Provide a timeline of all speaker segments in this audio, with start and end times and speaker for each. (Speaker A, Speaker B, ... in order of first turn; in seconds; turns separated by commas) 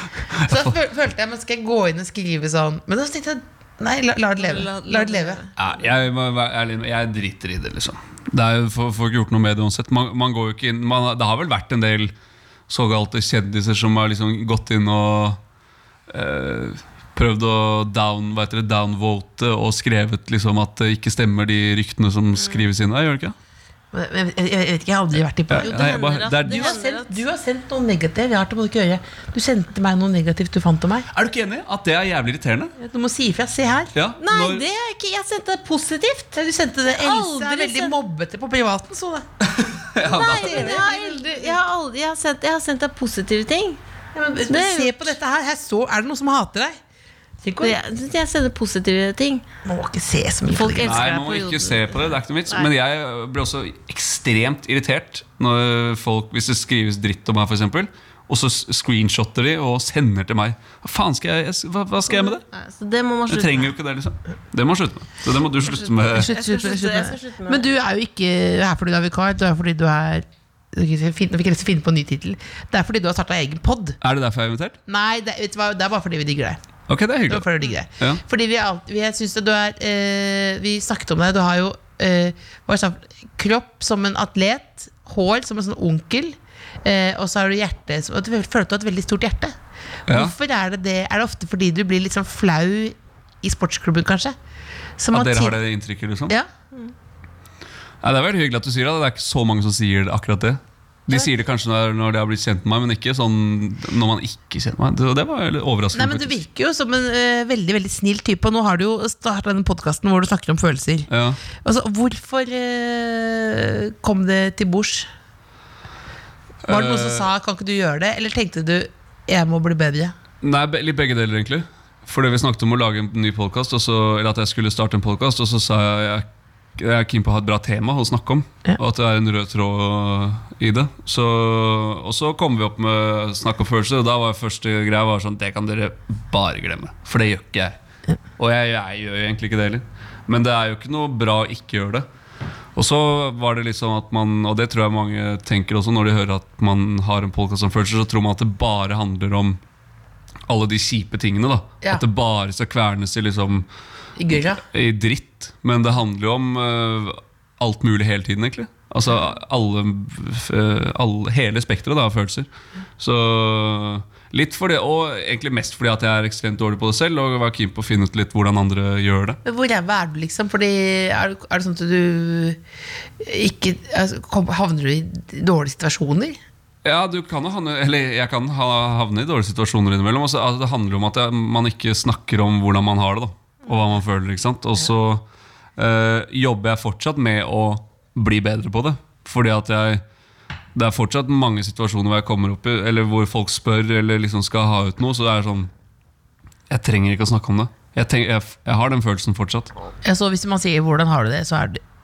Speaker A: 0.3-0.7, Speaker B: 0.5-5.4, Speaker C: 4.4-5.5, Speaker A: 5.6-12.1, Speaker A: 12.7-15.4, Speaker A: 16.1-23.3, Speaker B: 23.9-25.7, Speaker A: 25.5-26.8, Speaker C: 25.6-27.2, Speaker B: 26.4-31.1, Speaker A: 31.1-32.7, Speaker B: 32.8-33.9, Speaker A: 33.9-34.6, Speaker C: 34.2-38.0, Speaker B: 36.3-39.3, Speaker A: 39.4-40.8, Speaker C: 40.0-43.8, Speaker B: 40.0-41.6, Speaker B: 44.1-46.8, Speaker C: 44.5-45.1, Speaker B: 47.4-47.8, Speaker C: 47.6-49.4, Speaker B: 49.6-51.1, Speaker C: 50.5-52.7, Speaker A: 50.8-62.4, Speaker C: 62.1-63.7, Speaker A: 63.3-66.3, Speaker C: 65.7-67.6, Speaker B: 66.1-74.0, Speaker A: 74.0-74.8, Speaker B: 74.9-76.6, Speaker A: 76.9-77.5, Speaker B: 77.3-89.5, Speaker B: 90.1-94.3, Speaker A: 90.1-90.3, Speaker B: 95.0-95.6, Speaker A: 95.1-96.3, Speaker A: 98.0-106.4, Speaker B: 105.9-111.1, Speaker A: 111.1-111.4, Speaker B: 111.6-115.1, Speaker A: 116.6-117.3, Speaker B: 116.7-120.1, Speaker A: 120.4-126.2, Speaker A: 126.8-137.8, Speaker A: 138.4-142.1, Speaker A: 142.8-149.6, Speaker A: 150.5-153.7, Speaker B: 154.2-154.6, Speaker A: 154.7-162.5, Speaker A: 163.0-169.4, Speaker B: 169.4-172.6, Speaker B: 173.2-176.4, Speaker A: 176.8-185.2, Speaker A: 185.8-190.0, Speaker A: 190.7-195.7, Speaker A: 196.7-199.7, Speaker B: 200.0-201.8